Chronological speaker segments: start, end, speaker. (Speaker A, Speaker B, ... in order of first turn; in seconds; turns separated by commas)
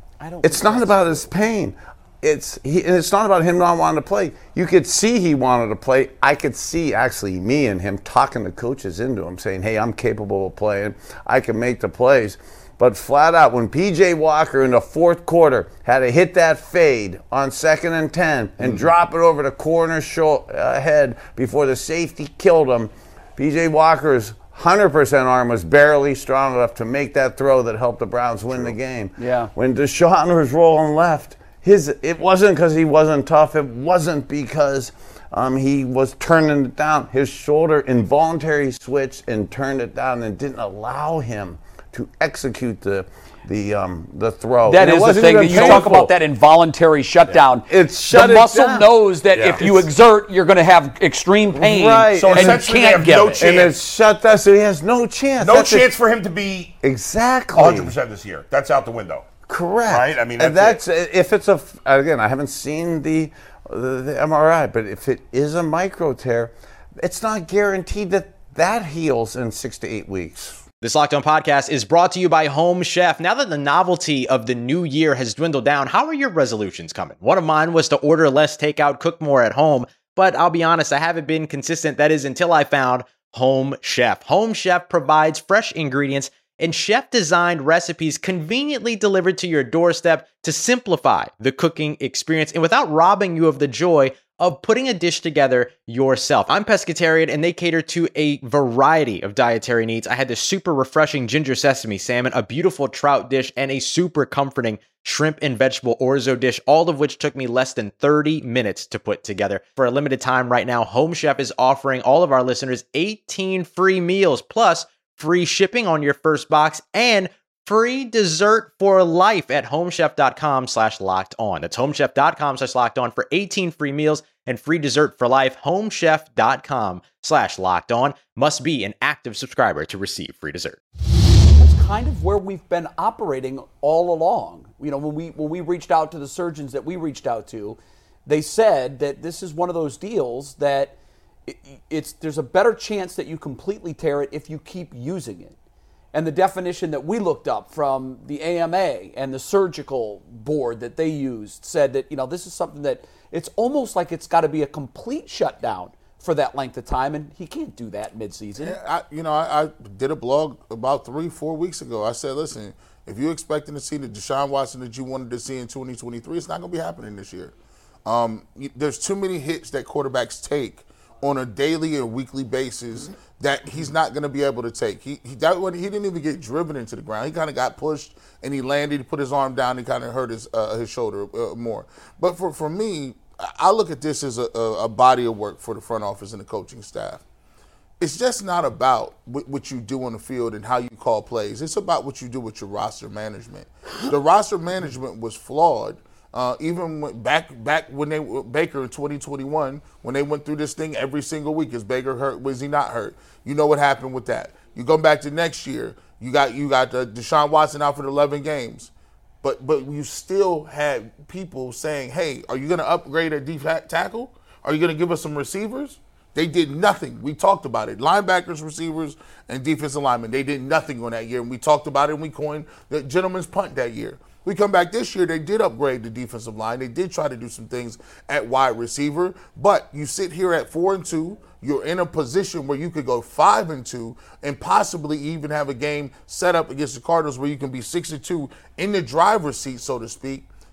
Speaker A: 0.2-1.3, Speaker B: 0.4-46.1, Speaker A: 29.2-29.5, Speaker A: 44.6-53.5, Speaker C: 45.5-45.8, Speaker B: 47.7-48.9, Speaker C: 49.4-49.7, Speaker B: 51.5-55.9, Speaker C: 52.2-53.7, Speaker C: 55.4-56.7, Speaker B: 56.8-58.0, Speaker C: 57.5-59.2, Speaker B: 59.5-70.6, Speaker C: 59.9-60.8, Speaker D: 70.8-130.8, Speaker A: 131.6-140.9, Speaker A: 141.5-145.5, Speaker A: 146.1-158.8, Speaker E: 158.6-167.5, Speaker E: 168.1-187.2, Speaker E: 188.0-208.9, Speaker E: 209.4-240.5